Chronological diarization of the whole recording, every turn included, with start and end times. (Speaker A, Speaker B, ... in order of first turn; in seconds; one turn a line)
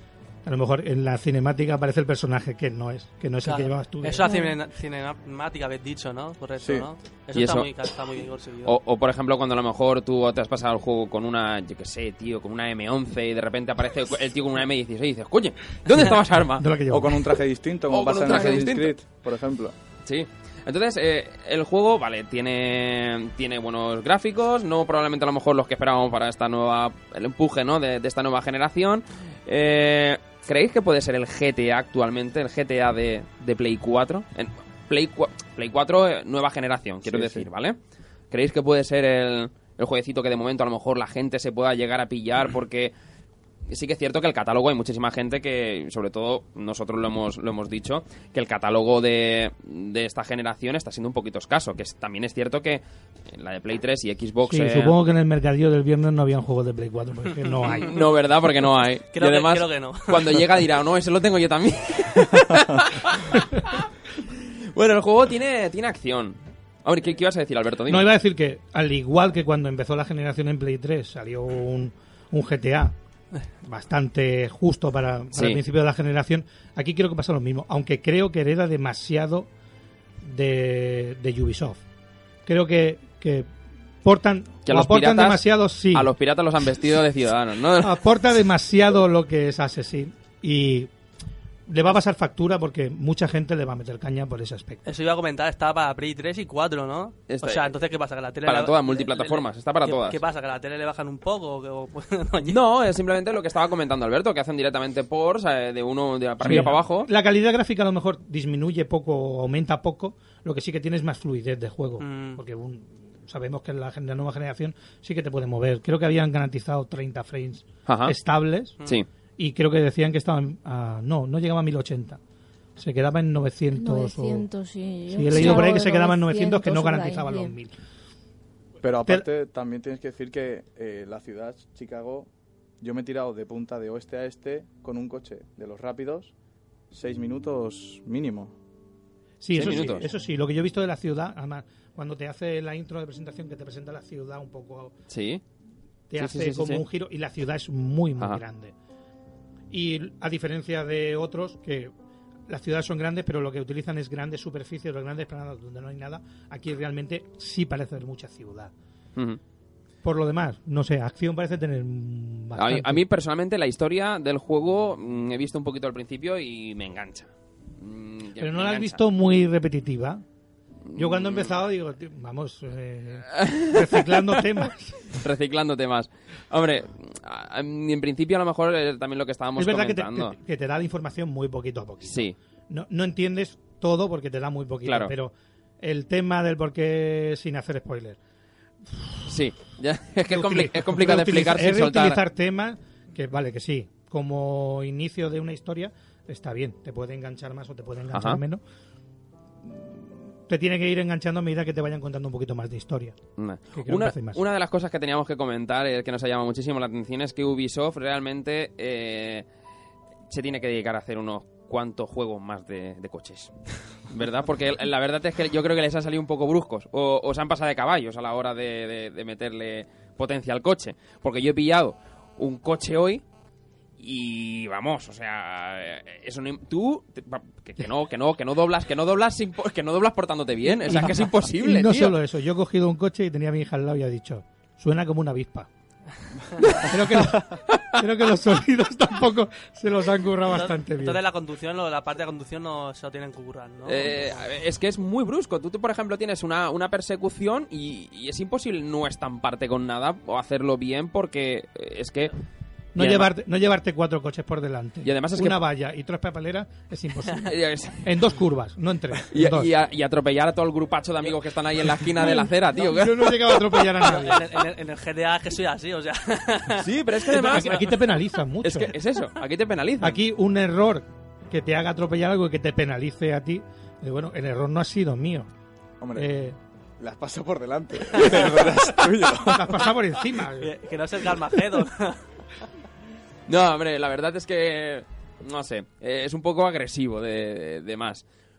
Speaker A: 0.5-4.3
Speaker B: 3.4-8.8
Speaker C: 4.2-4.5
Speaker D: 6.6-6.9
Speaker E: 7.3-7.7
Speaker E: 8.7-16.7
Speaker A: 16.6-17.4
Speaker D: 16.9-19.7
Speaker E: 17.9-18.9
Speaker E: 20.0-37.8
Speaker D: 37.1-37.5
Speaker E: 38.3-42.9
Speaker E: 43.7-54.9
Speaker A: 54.5-57.9
Speaker E: 57.6-68.1
Speaker B: 59.1-60.4
Speaker A: 67.9-72.9
Speaker A: 73.7-79.5
Speaker E: 75.3-75.6
Speaker A: 80.2-81.8
Speaker A: 82.5-83.5
Speaker A: 84.0-86.1
Speaker E: 84.7-88.0
Speaker A: 87.8-90.9
Speaker A: 91.7-94.8
Speaker B: 94.8-102.6
Speaker E: 97.3-97.7
Speaker E: 98.5-100.2
Speaker E: 102.5-107.1
Speaker A: 106.4-118.8
Speaker B: 112.0-112.4
Speaker E: 117.9-118.2
Speaker A: 119.4-122.2
Speaker A: 122.8-124.5
Speaker C: 123.8-127.5
Speaker A: 125.1-127.7
Speaker E: 125.3-125.7
Speaker D: 128.8-132.3
Speaker D: 132.8-136.3
Speaker D: 136.9-138.5
Speaker A: 139.4-144.9
Speaker E: 139.5-140.1
Speaker D: 139.6-139.9
Speaker E: 145.1-145.4
Speaker A: 146.1-148.7
Speaker E: 146.2-146.8
Speaker A: 149.7-151.9
Speaker A: 152.5-158.7
Speaker A: 160.0-163.0
Speaker E: 162.6-169.0
Speaker A: 168.4-170.2
Speaker E: 170.9-171.6
Speaker A: 170.9-175.2
Speaker E: 173.3-174.4
Speaker E: 175.2-180.4
Speaker A: 179.6-188.2
Speaker E: 182.0-182.4
Speaker E: 184.8-185.1
Speaker A: 188.9-189.3
Speaker E: 189.3-192.2
Speaker A: 190.3-198.6
Speaker E: 198.1-198.4
Speaker A: 199.6-203.2
Speaker E: 203.4-209.5
Speaker A: 203.7-204.4
Speaker E: 210.3-213.5
Speaker E: 214.1-223.2
Speaker E: 224.0-232.2
Speaker A: 230.8-235.7
Speaker A: 236.8-241.2
Speaker E: 237.4-238.0
Speaker B: 240.5-244.4
Speaker E: 243.8-252.3
Speaker A: 252.9-259.7
Speaker E: 253.0-253.3
Speaker E: 255.1-255.6
Speaker E: 257.4-258.1
Speaker E: 259.3-263.9
Speaker A: 262.2-264.6
Speaker B: 264.0-267.9
Speaker E: 266.8-267.8
Speaker A: 267.4-269.0
Speaker E: 268.6-270.2
Speaker A: 270.0-275.5
Speaker D: 276.0-276.3
Speaker A: 276.2-276.6
Speaker D: 277.0-279.6
Speaker A: 279.4-280.8
Speaker B: 280.6-282.2
Speaker E: 283.5-288.2